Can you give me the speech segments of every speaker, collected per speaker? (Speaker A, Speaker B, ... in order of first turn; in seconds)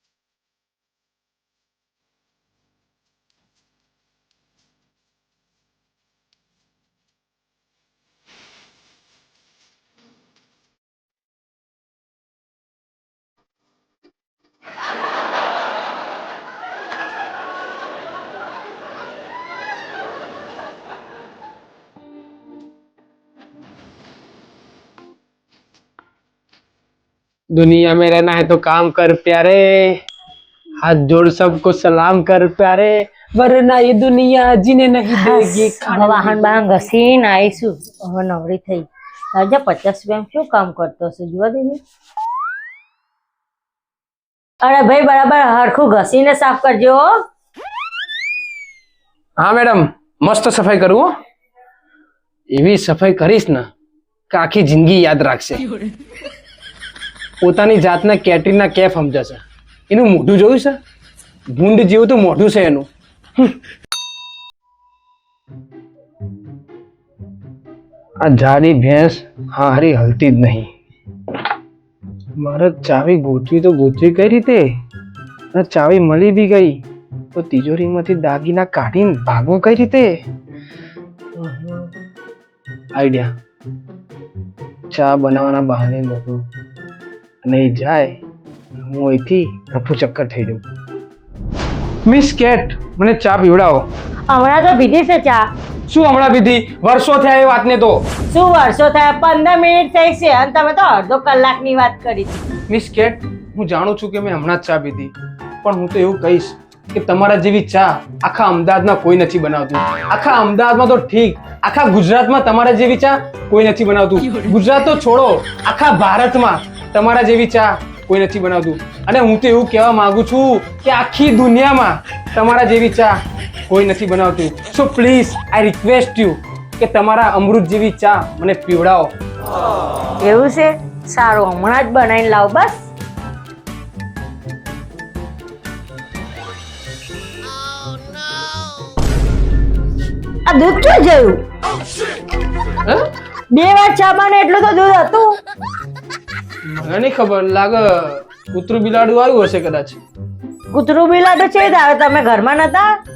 Speaker A: 27.5-30.0, 30.8-36.5, 49.4-51.1, 52.5-53.7, 54.3-55.7, 57.4-60.8, 61.5-63.5, 68.2-70.7, 72.4-74.7, 75.5-80.2, 81.4-81.9, 82.9-83.3, 84.9-86.5, 87.4-88.2, 88.8-90.6, 92.0-93.9, 95.9-98.0, 102.7-129.1, 146.7-150.0
Speaker B: 35.1-41.8, 44.6-47.1, 94.3-95.5, 98.3-102.4, 130.2-132.9, 140.5-141.4, 143.5-145.4, 150.7-152.9